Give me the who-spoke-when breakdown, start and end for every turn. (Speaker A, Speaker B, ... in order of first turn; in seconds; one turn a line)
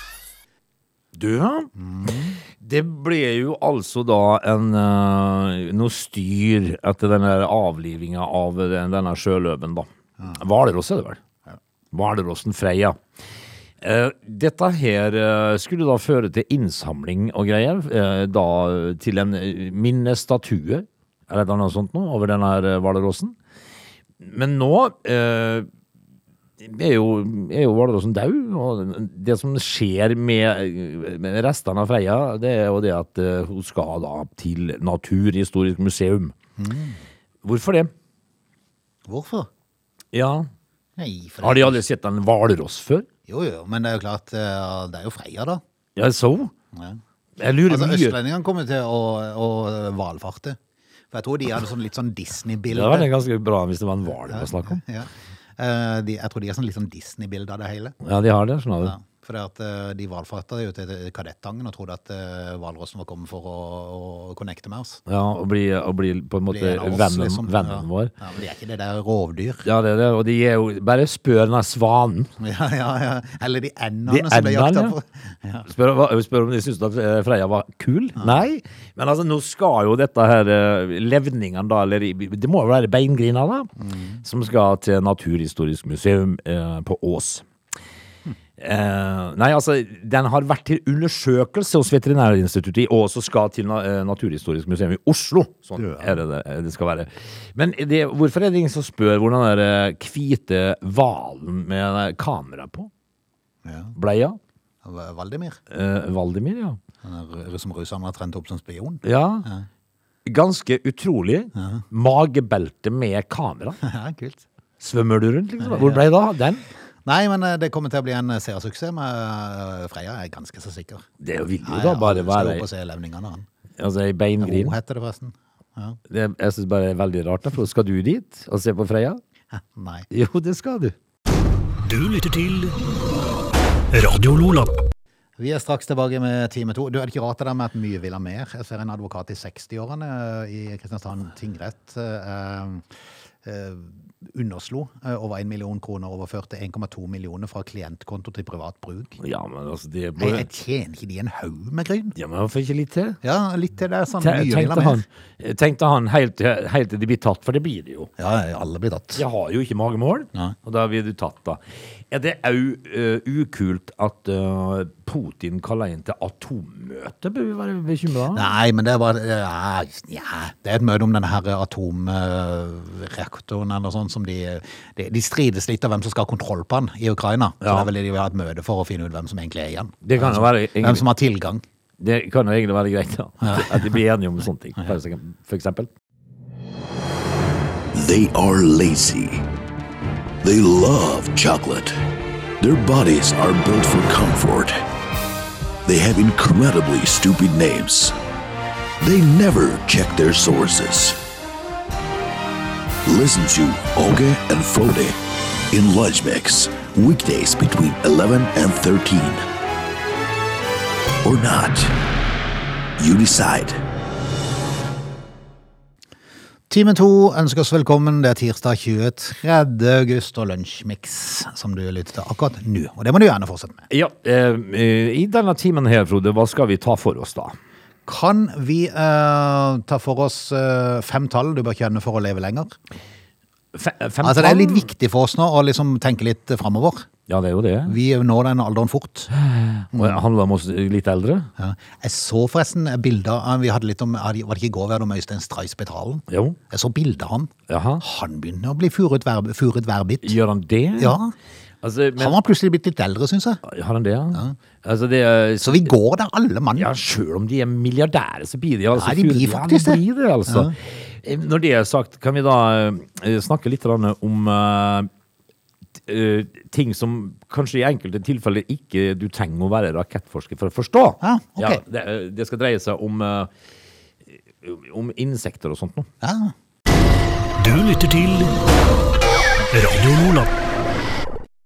Speaker A: 1.1-1.7
Speaker B: 1.8-2.4
Speaker A: 2.6-11.2
Speaker A: 11.9-13.0
Speaker A: 13.8-23.4
Speaker A: 24.2-25.7
Speaker A: 26.6-36.3
Speaker B: 36.6-37.0
Speaker A: 37.4-37.9
Speaker B: 39.1-39.5
Speaker A: 40.1-40.5
Speaker B: 41.0-41.8
Speaker A: 41.4-43.1
Speaker B: 43.3-45.6
Speaker A: 46.0-46.5
Speaker B: 46.7-47.0
Speaker A: 47.4-48.2
Speaker B: 47.7-50.6
Speaker B: 51.1-53.1
Speaker A: 52.7-54.8
Speaker B: 54.3-58.0
Speaker A: 58.0-59.0
Speaker B: 58.8-65.0
Speaker A: 65.1-68.1
Speaker B: 66.5-69.7
Speaker A: 69.7-72.3
Speaker B: 72.4-75.7
Speaker A: 74.1-75.0
Speaker A: 75.7-83.7
Speaker B: 83.8-84.2
Speaker A: 84.2-87.5
Speaker A: 88.6-102.9
Speaker B: 95.8-96.2
Speaker B: 103.7-103.9
Speaker A: 104.0-104.4
Speaker B: 104.8-105.6
Speaker A: 105.7-106.8
Speaker B: 107.0-109.7
Speaker A: 109.0-109.5
Speaker A: 110.2-113.8
Speaker B: 111.6-111.8
Speaker B: 113.8-114.4
Speaker A: 114.8-116.6
Speaker B: 115.6-116.1
Speaker B: 117.0-121.0
Speaker A: 121.2-122.7
Speaker B: 121.6-123.5
Speaker A: 123.8-124.7
Speaker B: 124.4-126.0
Speaker A: 126.1-129.2
Speaker B: 129.5-130.1
Speaker A: 130.1-131.0
Speaker C: 131.8-132.8
Speaker C: 133.9-134.8
Speaker B: 135.4-142.8
Speaker B: 143.4-149.2
Speaker A: 149.2-150.5
Speaker B: 150.2-152.2
Speaker A: 152.2-153.2
Speaker B: 153.2-155.0
Speaker A: 154.2-158.1
Speaker B: 158.2-159.2
Speaker A: 159.2-168.5
Speaker B: 168.3-181.6
Speaker A: 177.6-177.9
Speaker A: 180.0-181.1
Speaker A: 182.0-185.9
Speaker B: 183.4-183.9
Speaker D: 187.9-189.4
Speaker D: 190.4-192.0
Speaker D: 192.6-194.8
Speaker D: 195.8-198.1
Speaker D: 199.0-201.2
Speaker D: 203.1-205.2
Speaker D: 205.7-209.4
Speaker D: 211.2-211.9
Speaker D: 213.0-213.8
Speaker B: 216.7-223.8
Speaker A: 223.9-227.6
Speaker B: 228.1-232.8
Speaker A: 233.7-234.9
Speaker B: 234.2-237.1
Speaker A: 237.3-238.0
Speaker B: 237.9-239.3
Speaker A: 239.3-241.5
Speaker B: 239.9-240.2
Speaker B: 241.6-250.4
Speaker A: 246.3-246.6
Speaker A: 247.7-248.0
Speaker A: 250.2-251.2
Speaker B: 251.0-251.3
Speaker A: 251.8-252.4
Speaker B: 252.2-253.6
Speaker A: 253.6-255.9
Speaker B: 255.6-256.9
Speaker A: 256.8-265.1
Speaker B: 258.9-260.7
Speaker A: 266.1-273.5
Speaker B: 271.2-271.8
Speaker A: 274.6-276.1
Speaker B: 276.2-276.5
Speaker C: 277.6-278.6
Speaker C: 279.7-280.5